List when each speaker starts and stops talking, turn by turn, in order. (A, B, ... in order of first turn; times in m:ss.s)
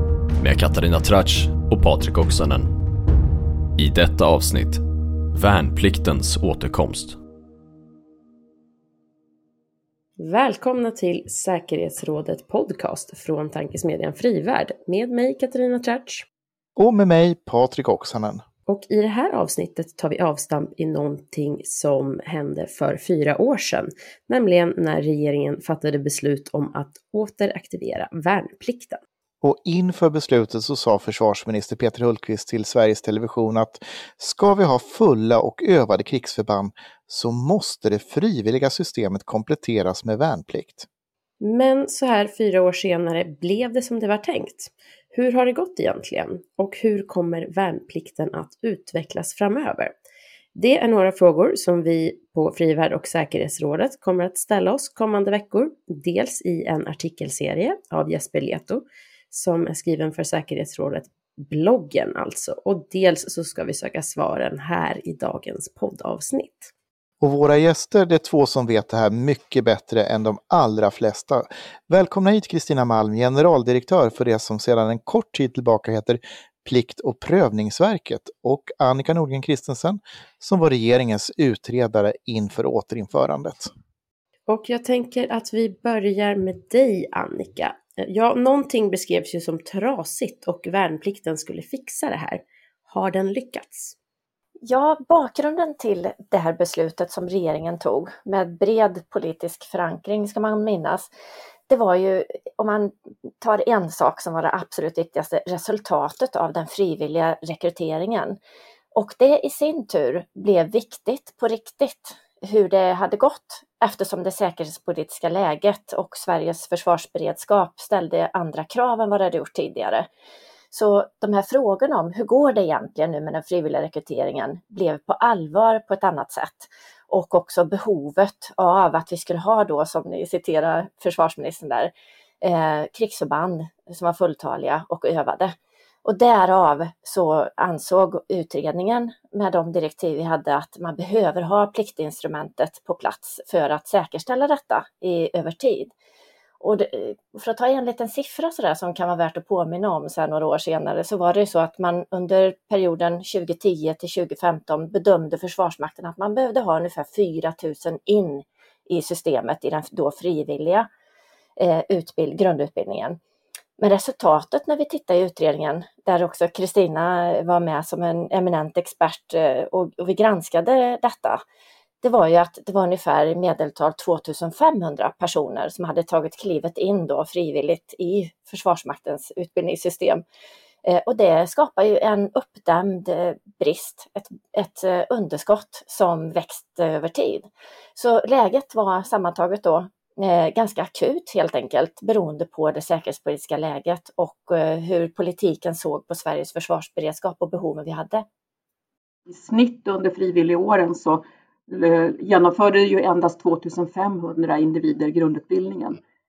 0:00.4-0:02.7 A
0:03.8-0:04.8 A
0:05.3-0:07.2 A
0:10.2-0:16.3 B
0:16.8-0:18.4 C
0:18.7-0:29.0 B
0:29.4-0:40.9 C
0:41.4-0:49.9 B
0:50.6-1:06.7 B
1:07.2-1:23.7 C
1:24.5-1:34.0 B
1:34.6-1:41.1 D
1:41.7-1:48.4 D
1:48.9-2:00.1 D
2:00.7-2:25.9 D
2:26.6-2:40.9 D
2:41.6-2:43.2 D
2:43.8-2:51.4 D
2:52.0-3:00.2 D
3:00.8-3:18.2 D
3:19.3-3:26.0 E